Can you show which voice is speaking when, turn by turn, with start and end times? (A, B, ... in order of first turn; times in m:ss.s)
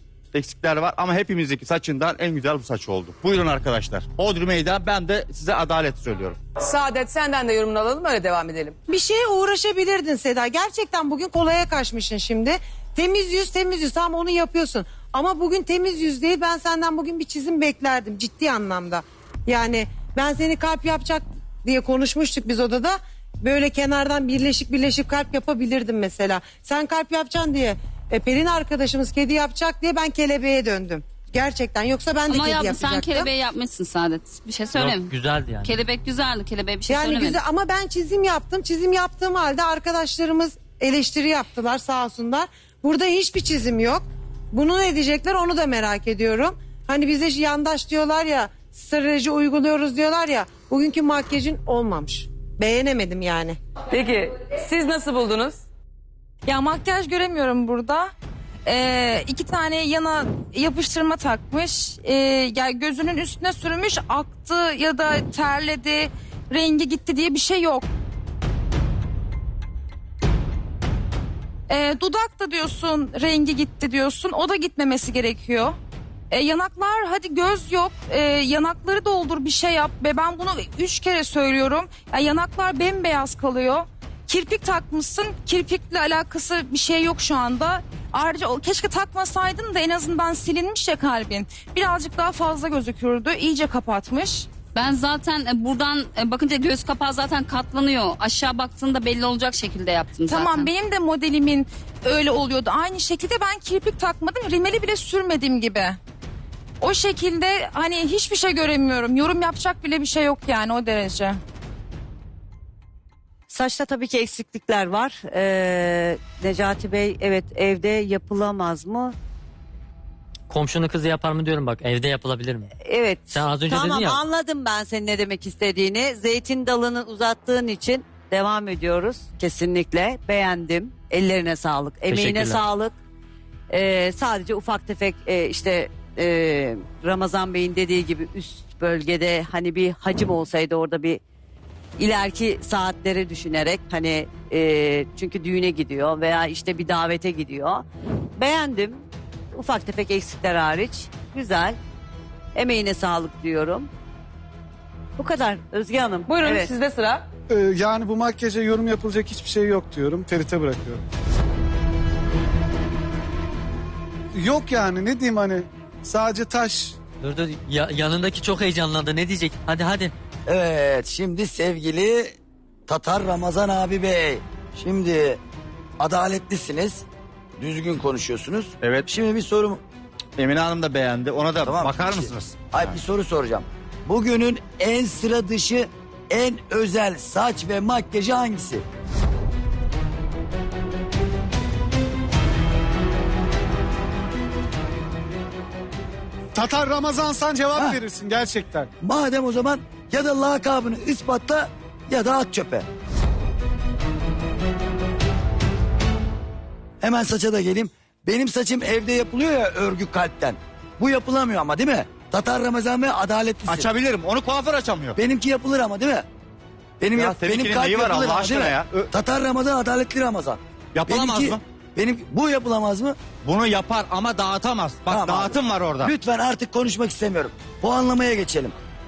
0:00.3-0:06.4 A
0:06.6-0:08.8 B
0:08.9-0:33.3 C
0:32.3-0:37.4 D
0:34.7-0:35.7 E
0:36.9-0:53.6 C
0:53.9-0:55.6 B
0:56.4-0:58.1 F
0:58.6-1:07.9 F
1:11.7-1:15.8 F
1:16.3-1:34.5 F
1:34.7-1:40.7 D
1:40.3-1:46.0 F
1:46.8-1:51.4 F
1:53.5-1:59.2 G
2:00.5-2:02.7 E
2:02.8-2:12.9 G
2:03.3-2:04.2 E
2:12.1-2:12.6 E
2:13.7-2:21.2 G
2:22.0-2:27.8 G
2:28.4-2:31.8 G
2:32.6-2:33.9 G
2:35.2-2:36.7 G
2:36.3-2:37.2 B
2:37.5-2:41.0 H
2:44.4-2:46.9 H
2:47.2-2:50.1 E
2:50.5-2:52.4 I
2:52.9-2:55.4 I
2:56.0-2:57.0 I
2:57.6-2:59.8 I
2:58.8-2:59.1 A
3:00.4-3:03.0 A
3:01.6-3:08.8 I
3:16.6-3:18.9 H
3:19.0-3:22.9 I
3:27.0-3:33.9 I
3:33.7-3:35.2 A
3:35.2-3:36.2 I
3:37.0-3:43.2 I
3:37.1-3:39.1 A
3:40.9-3:41.6 A
3:43.4-3:46.1 A
3:45.1-3:48.7 I